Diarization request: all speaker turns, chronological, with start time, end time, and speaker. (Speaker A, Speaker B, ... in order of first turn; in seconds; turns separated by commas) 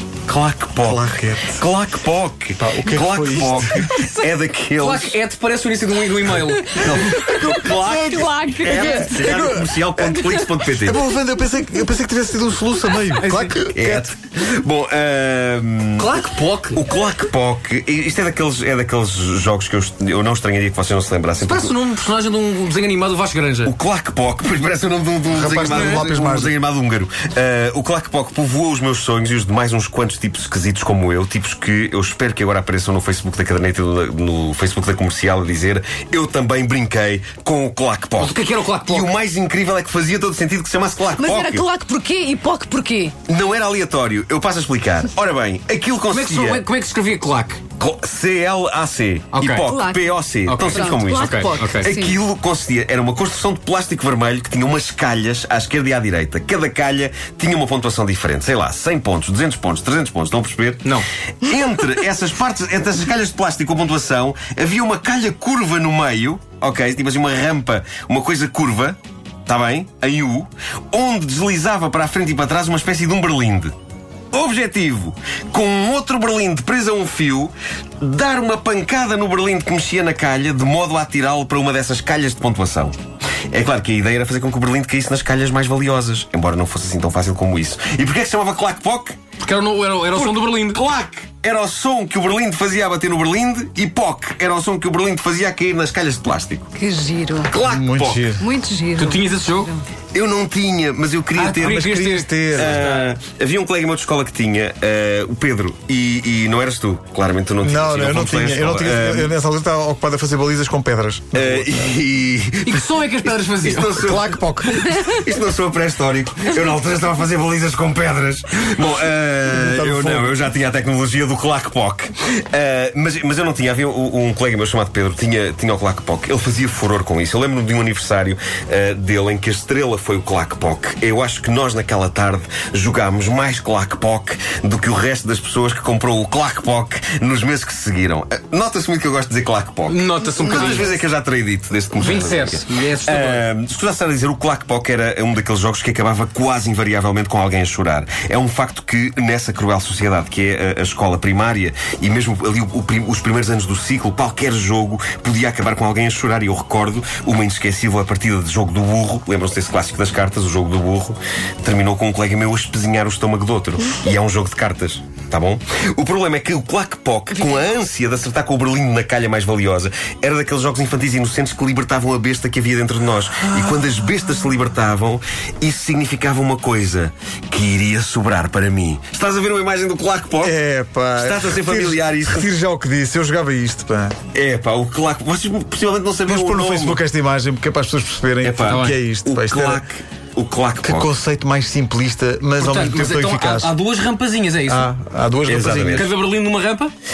Speaker A: 0.3-5.2, Speaker B: 0.8-1.6, Speaker B: 2.6-4.1, Speaker C: 4.8-7.1, Speaker A: 6.7-11.0, Speaker D: 7.5-9.1, Speaker C: 8.1-9.1, Speaker B: 8.7-10.2, Speaker B: 10.8-14.1, Speaker C: 13.1-13.6, Speaker A: 13.7-16.2, Speaker C: 16.0-16.8, Speaker A: 16.7-21.7, Speaker C: 21.4-23.7, Speaker A: 23.6-41.7, Speaker B: 25.3-26.5, Speaker C: 25.7-26.0, Speaker C: 38.2-39.1, Speaker D: 41.2-43.1, Speaker A: 43.3-46.7, Speaker C: 46.1-47.6, Speaker A: 47.8-73.7, Speaker C: 49.3-49.7, Speaker D: 49.6-50.1, Speaker C: 50.4-51.9, Speaker D: 50.6-52.2, Speaker A: 74.3-83.0, Speaker A: 83.5-89.2, Speaker C: 89.4-90.8, Speaker A: 90.1-96.7, Speaker D: 96.8-97.5, Speaker A: 97.5-98.3, Speaker B: 97.6-98.5, Speaker D: 98.4-99.8, Speaker C: 99.0-99.8, Speaker A: 100.1-109.3, Speaker C: 101.3-103.1, Speaker B: 101.6-102.8, Speaker B: 107.6-111.9, Speaker A: 111.3-180.6, Speaker C: 112.6-114.1, Speaker B: 114.0-115.0, Speaker B: 119.5-120.4, Speaker C: 139.9-141.0, Speaker D: 140.5-140.8, Speaker C: 142.0-143.5, Speaker B: 180.4-184.2, Speaker A: 181.2-182.5, Speaker A: 184.3-187.1, Speaker B: 186.3-189.8, Speaker A: 188.4-191.1, Speaker C: 188.7-189.0, Speaker B: 190.8-193.7, Speaker C: 192.6-194.9, Speaker B: 194.7-196.1, Speaker A: 195.5-196.1, Speaker C: 195.9-196.9